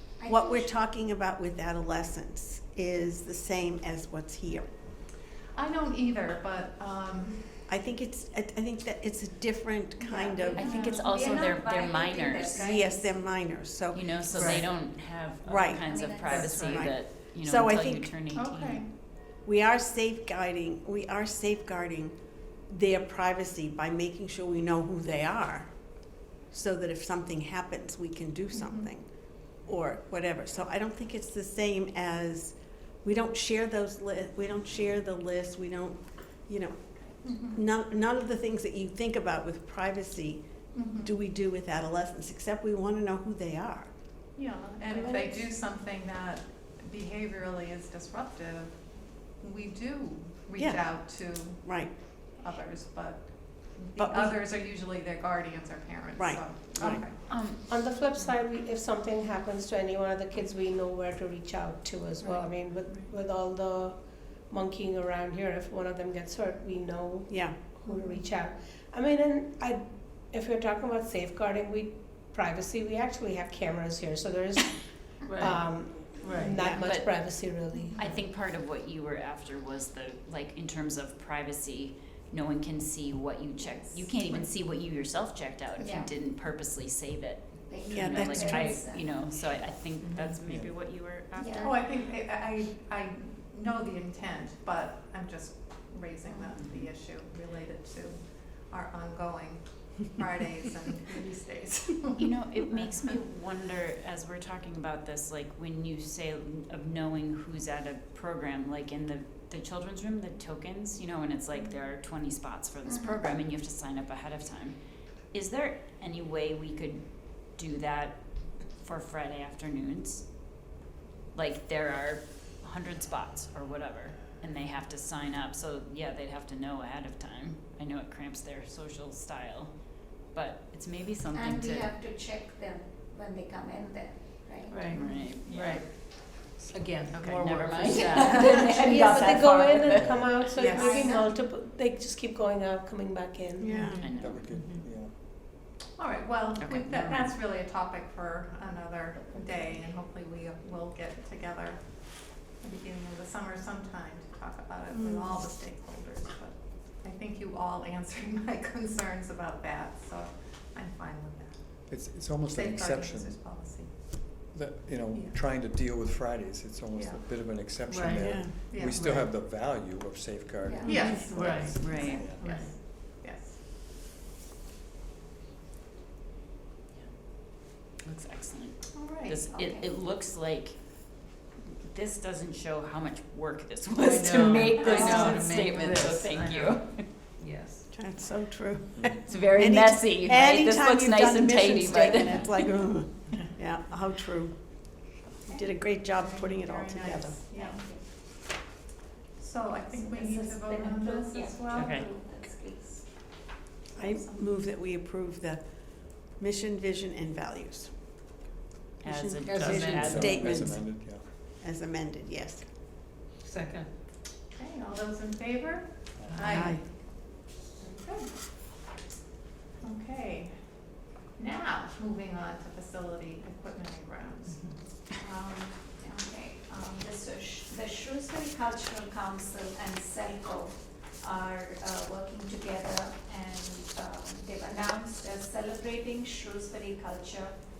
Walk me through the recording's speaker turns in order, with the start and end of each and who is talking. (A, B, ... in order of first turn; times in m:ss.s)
0:00.2-0:00.7 A
0:00.2-0:04.7 B
0:05.5-0:07.6 C
0:07.7-0:10.7 B
0:10.0-0:13.0 A
0:10.5-0:12.7 D
0:10.5-0:11.4 C
0:12.5-0:18.1 B
0:13.9-0:18.8 D
0:14.3-0:14.7 E
0:15.8-0:16.5 A
0:16.3-0:16.9 E
0:18.3-0:18.9 C
0:19.4-0:22.2 B
0:22.7-0:25.8 B
0:26.5-0:43.9 B
0:28.5-0:28.9 C
0:37.2-0:37.6 C
0:40.7-0:41.1 C
0:44.3-0:57.5 C
0:44.8-0:45.5 B
0:50.6-0:51.9 B
0:54.0-0:54.4 B
0:56.2-0:57.0 B
0:56.8-0:57.6 D
0:57.7-1:18.1 F
1:02.2-1:03.1 C
1:07.3-1:07.6 B
1:15.2-1:16.6 E
1:16.6-1:16.8 B
1:16.7-1:32.0 D
1:23.7-1:24.5 A
1:25.8-1:26.1 A
1:27.7-1:29.1 A
1:27.9-1:28.7 B
1:30.0-1:30.3 C
1:30.5-1:30.8 G
1:31.4-1:31.7 A
1:31.6-1:43.2 C
1:36.5-1:36.9 D
1:42.1-1:54.8 D
1:52.8-1:53.2 A
1:55.3-2:00.5 D
2:01.3-2:11.9 D
2:11.3-2:15.2 A
2:14.7-2:18.7 E
2:14.9-2:15.8 D
2:17.1-2:20.6 D
2:17.8-2:19.4 A
2:18.8-2:23.8 F
2:19.9-2:20.3 G
2:20.5-2:21.2 C
2:20.6-2:21.3 A
2:23.6-2:24.0 B
2:23.7-2:24.8 E
2:24.0-2:24.4 D
2:24.0-2:25.2 G
2:25.9-2:41.9 C
2:26.6-2:27.4 D
2:34.9-2:35.4 B
2:41.9-2:43.4 G
2:42.5-2:44.2 C
2:44.3-2:52.5 G
2:46.9-2:47.2 C
2:47.8-2:48.6 E
2:48.1-2:49.3 B
2:48.5-2:49.2 C
2:50.6-2:51.3 A
2:50.8-2:53.6 C
2:50.9-2:51.6 B
2:51.3-2:52.7 E
2:51.8-2:52.3 D
2:52.0-2:52.2 A
2:57.6-3:07.1 D
2:58.9-2:59.4 C
2:59.5-2:59.9 A
3:04.0-3:06.8 E
3:04.8-3:05.5 A
3:07.4-3:07.8 E
3:07.9-3:17.4 B
3:09.2-3:13.0 D
3:15.6-3:17.9 C
3:17.5-3:18.0 A
3:19.4-3:22.0 C
3:19.9-3:23.2 A
3:21.7-3:22.0 D
3:23.9-3:24.4 C
3:24.0-3:28.2 B
3:29.0-3:30.7 D
3:29.0-3:32.7 B
3:29.4-3:30.2 E
3:29.8-3:31.2 G
3:33.4-3:33.9 E
3:34.5-3:38.3 C
3:36.2-3:36.6 G
3:36.3-3:36.8 E
3:36.4-3:36.8 B
3:39.8-3:44.7 C
3:45.2-3:57.5 A